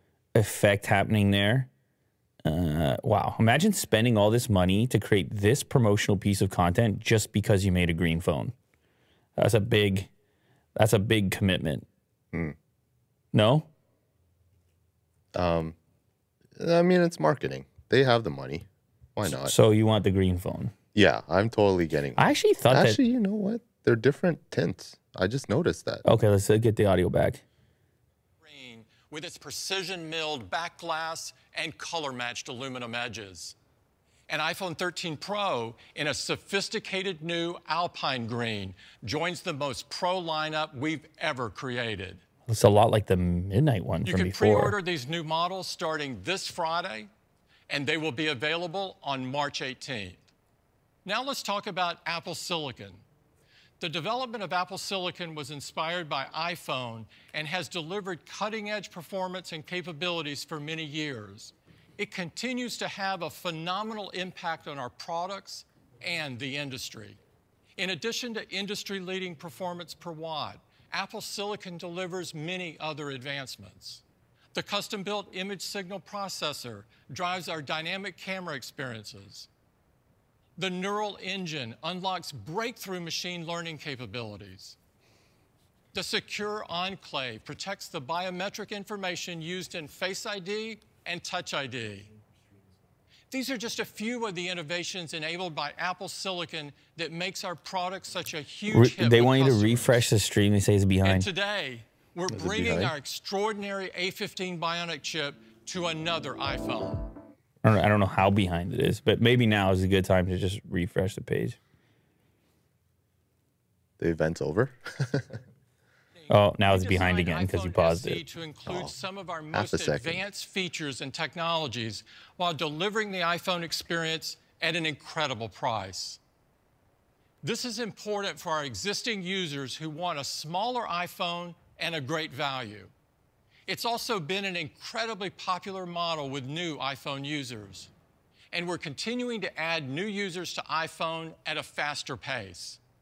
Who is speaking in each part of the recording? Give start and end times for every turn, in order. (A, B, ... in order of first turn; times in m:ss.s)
0:00.3-0:01.7 A
0:02.4-0:08.6 A
0:09.4-0:10.1 A
0:10.8-0:11.9 A
0:13.3-0:13.7 A
0:15.4-0:15.8 B
0:16.6-0:19.6 B
0:19.2-0:20.7 A
0:21.0-0:26.0 B
0:22.2-0:23.0 A
0:26.0-0:27.4 A
0:28.4-0:33.6 C
0:34.3-0:42.2 C
0:42.5-0:44.8 A
0:44.0-0:47.1 C
0:47.7-0:50.2 C
0:51.0-0:53.0 C
0:53.8-1:07.2 C
1:07.8-1:19.5 C
1:20.6-1:24.8 C
1:25.9-1:32.1 C
1:33.3-1:40.1 C
1:38.7-1:41.3 A
1:41.0-1:47.1 C
1:42.3-1:42.9 B
1:47.6-1:51.6 A
1:54.0-1:55.4 B
1:56.1-2:06.2 C
1:56.3-1:58.2 A
1:58.6-1:58.9 B
1:59.5-2:00.2 B
2:07.4-2:12.9 C
2:13.7-2:17.9 C
2:18.5-2:22.8 C